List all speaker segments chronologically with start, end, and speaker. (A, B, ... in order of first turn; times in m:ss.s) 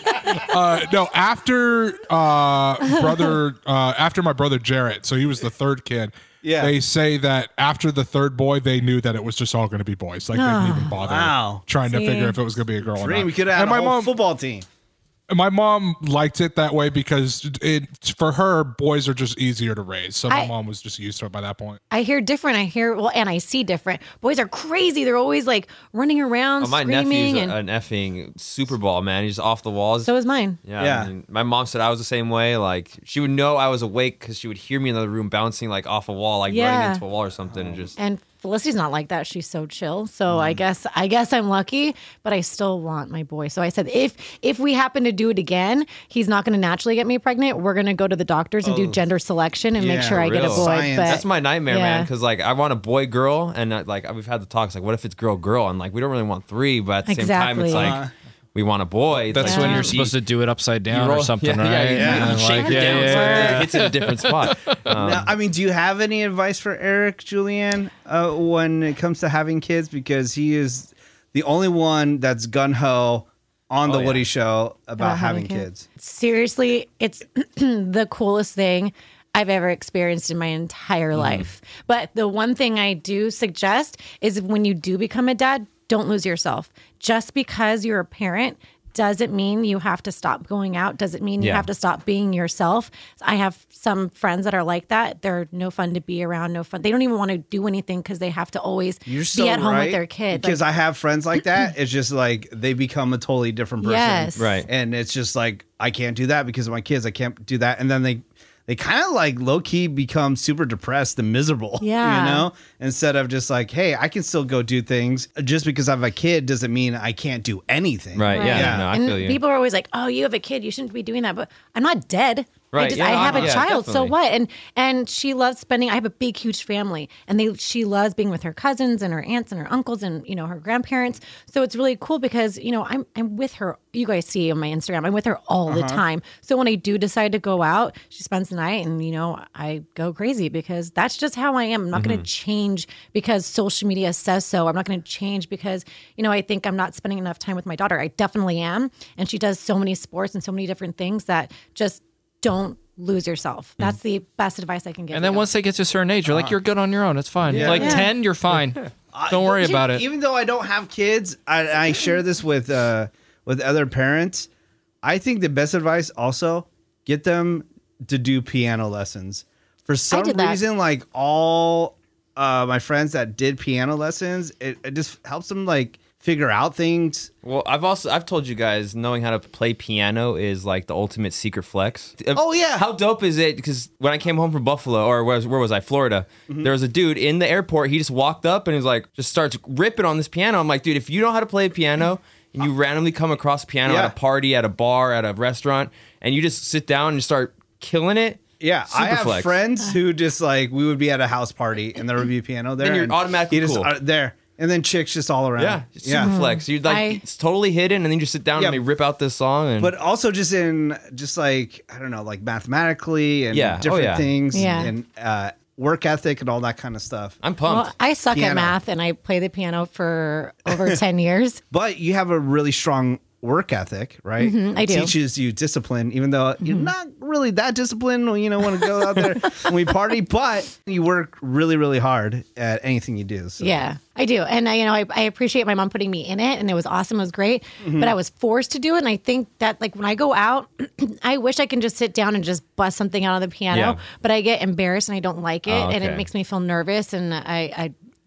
0:00.4-0:14.1 A
0:06.4-0:06.8 B
0:10.3-0:10.9 C
0:11.0-0:11.6 B
0:11.9-0:12.4 C
0:12.9-0:14.7 B
0:15.3-0:21.8 A
0:21.9-0:27.6 C
0:26.6-0:30.1 D
0:30.0-0:30.6 C
0:30.6-0:38.0 D
0:30.8-0:31.1 B
0:36.5-0:37.0 C
0:37.5-0:37.9 B
0:38.0-0:52.1 C
0:48.6-0:49.0 B
0:49.8-0:51.2 B
0:50.1-0:58.0 D
0:57.1-0:58.0 C
0:57.7-0:58.1 B
0:58.5-1:00.1 D
0:59.3-1:05.0 E
0:59.4-1:00.0 C
1:00.9-1:05.3 D
1:01.9-1:03.7 B
1:02.3-1:03.6 C
1:04.9-1:15.8 B
1:13.8-1:14.2 D
1:15.0-1:40.6 C
1:21.1-1:21.4 D
1:31.4-1:31.7 D
1:39.1-1:58.9 B
1:43.8-1:44.5 C
1:44.4-1:44.7 D
1:51.8-1:52.5 C
1:58.1-1:59.4 D
1:58.3-2:35.5 C
2:02.7-2:04.1 D
2:03.0-2:03.6 B
2:15.7-2:16.0 B
2:21.9-2:22.2 D
2:35.1-2:40.1 E
2:36.3-2:36.6 B
2:37.5-2:38.0 B
2:37.6-2:38.1 C
2:39.1-2:44.5 B
2:45.0-2:57.3 B
2:50.1-2:50.6 C
2:57.4-3:19.6 D
3:02.4-3:02.9 B
3:13.9-3:14.1 B
3:18.6-3:26.4 B
3:22.8-3:23.9 D
3:25.6-3:30.0 D
3:26.2-3:27.2 C
3:28.6-3:28.8 B
3:29.8-3:37.4 B
3:33.5-3:34.3 D
3:34.5-3:34.9 C
3:37.4-3:37.9 D
3:37.6-3:41.6 C
3:38.3-3:38.8 B
3:40.7-3:41.0 B
3:41.7-3:53.8 B
3:44.4-3:45.1 C
3:46.6-3:46.9 C
3:53.6-4:07.9 C
3:57.8-3:58.1 B
4:03.7-4:04.0 D
4:05.7-4:06.3 D